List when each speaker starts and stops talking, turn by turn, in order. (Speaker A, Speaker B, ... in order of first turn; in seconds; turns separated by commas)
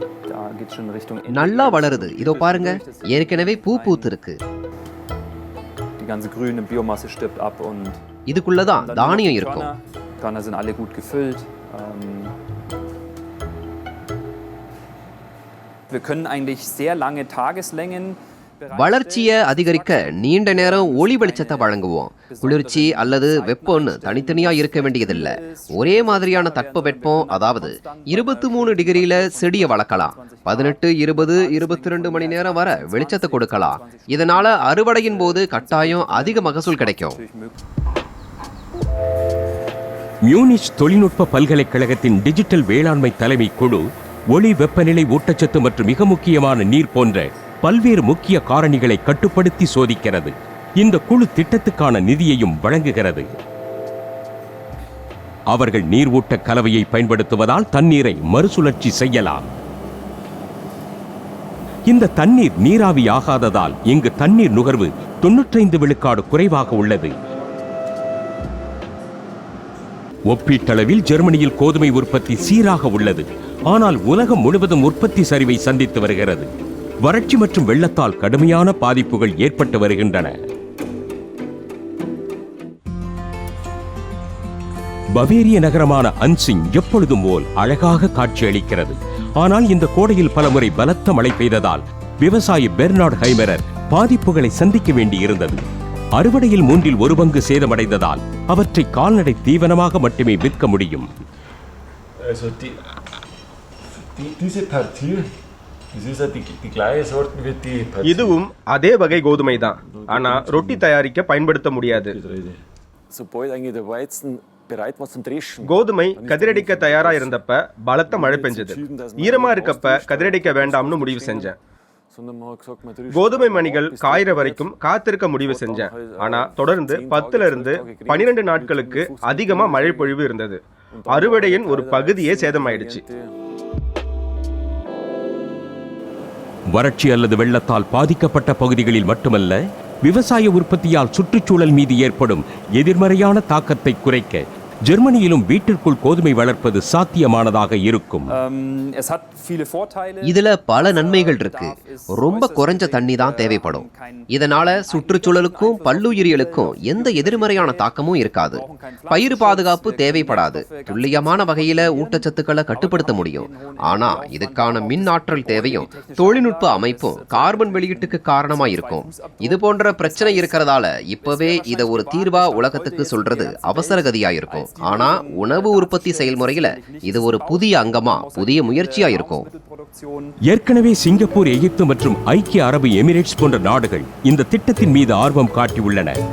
Speaker A: 0.3-4.1, Speaker B: 1.3-4.4, Speaker A: 6.0-8.0, Speaker B: 8.3-9.7, Speaker A: 8.6-12.4, Speaker A: 15.9-37.6, Speaker B: 18.8-37.2, Speaker C: 40.3-53.3, Speaker C: 55.5-59.5, Speaker C: 61.9-67.2, Speaker C: 70.3-76.5, Speaker C: 77.0-80.3, Speaker C: 85.2-95.6, Speaker C: 96.2-101.1, Speaker D: 104.6-105.2, Speaker E: 104.6-105.1, Speaker E: 106.2-107.9, Speaker D: 106.8-108.2, Speaker F: 108.0-112.2, Speaker D: 109.9-110.7, Speaker D: 113.1-117.4, Speaker F: 115.6-121.6, Speaker D: 118.1-121.5, Speaker D: 122.1-124.7, Speaker F: 123.1-133.0, Speaker D: 125.4-130.2, Speaker D: 131.0-133.1, Speaker C: 136.7-148.3, Speaker A: 148.3-180.4, Speaker B: 150.2-179.5, Speaker C: 180.5-186.2